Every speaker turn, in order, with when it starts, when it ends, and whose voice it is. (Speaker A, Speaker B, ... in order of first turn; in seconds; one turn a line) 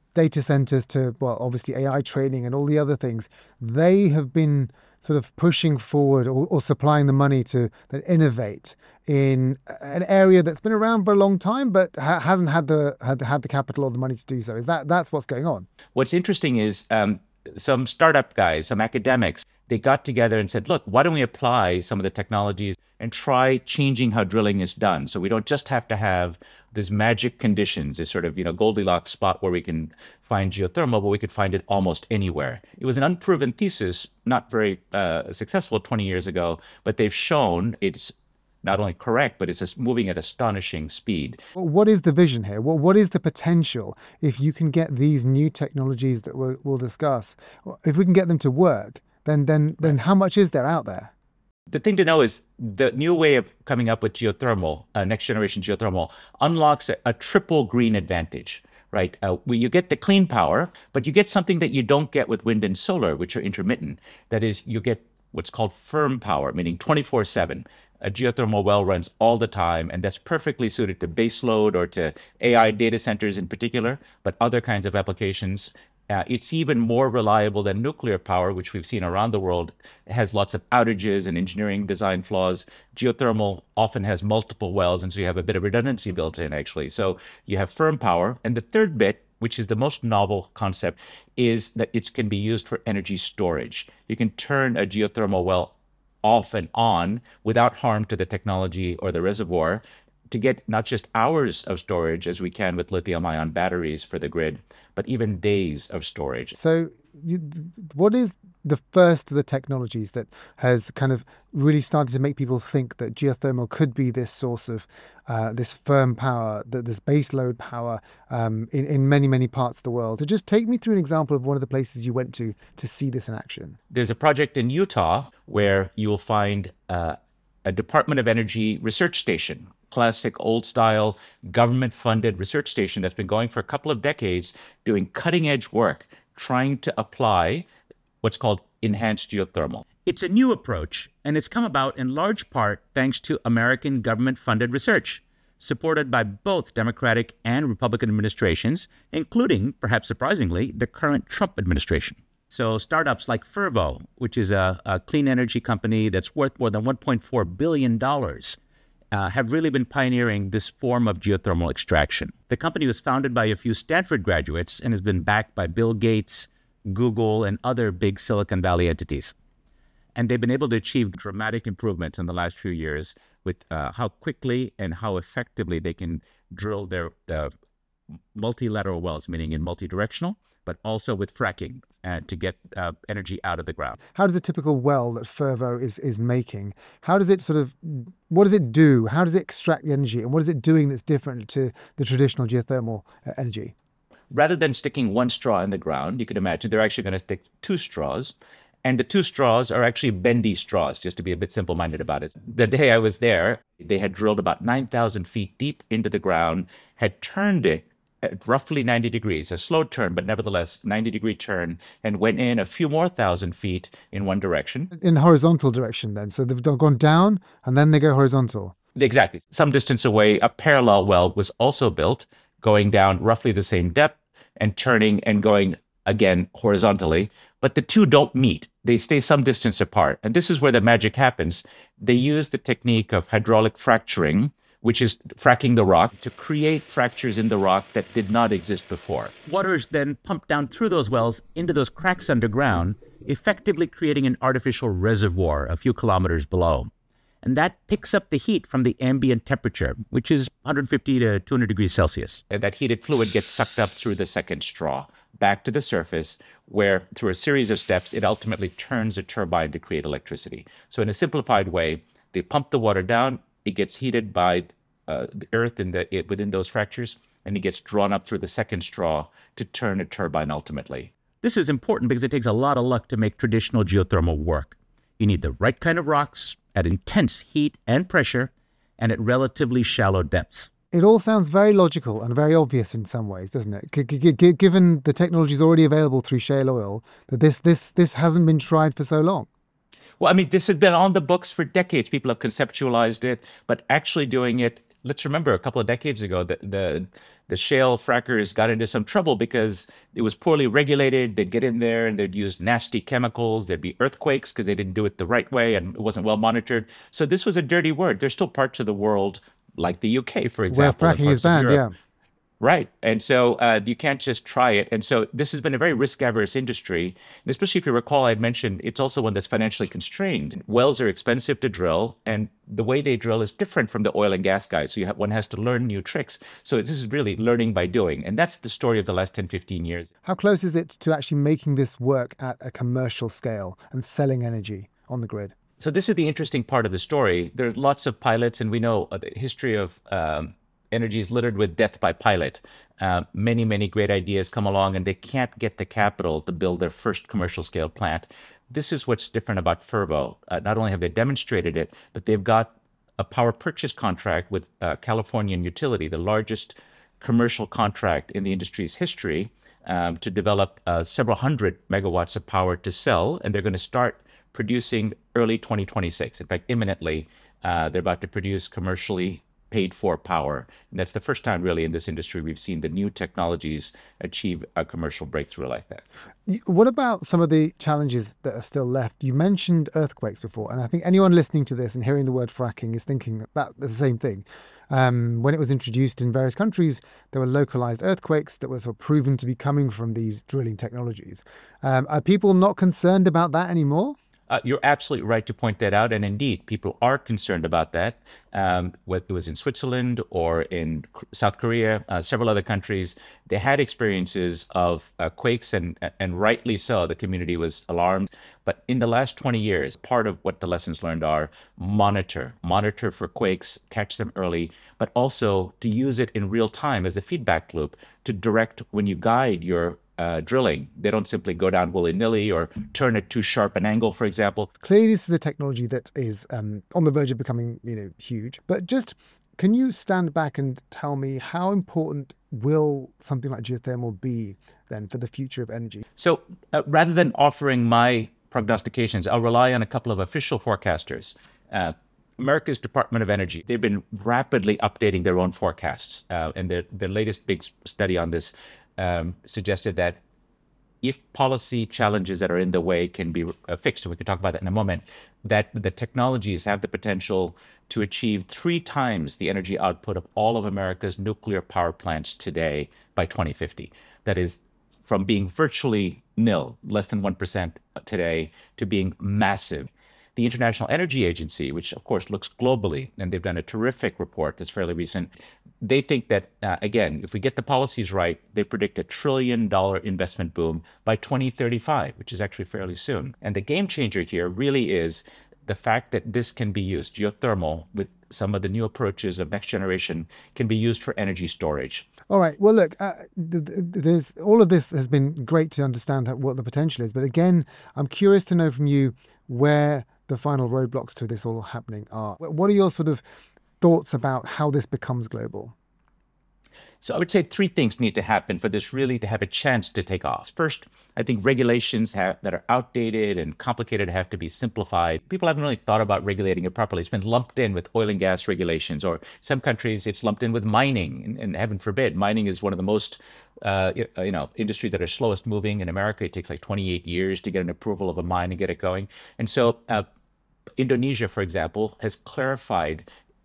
Speaker A: 0.1-15.7
Speaker B: 15.9-41.4
Speaker A: 41.5-51.1
Speaker B: 51.7-106.5
Speaker A: 106.5-123.8
Speaker B: 123.9-137.7
Speaker B: 138.2-158.6
Speaker B: 159.1-169.3
Speaker B: 170.2-177.5
Speaker B: 178.3-184.0
Speaker A: 184.2-193.7
Speaker B: 194.3-214.9
Speaker A: 214.9-218.7
Speaker B: 219.0-246.9
Speaker B: 247.4-280.7
Speaker A: 280.9-289.5
Speaker B: 290.2-311.8
Speaker A: 310.7-311.9
Speaker B: 312.6-330.1
Speaker A: 330.2-335.5
Speaker B: 335.8-376.0
Speaker A: 376.5-394.2
Speaker B: 394.5-424.7
Speaker A: 424.8-436.1
Speaker B: 436.2-450.2
Speaker B: 451.0-492.1
Speaker A: 492.3-503.2
Speaker A: 503.8-505.8
Speaker B: 507.0-530.0
Speaker B: 530.8-533.1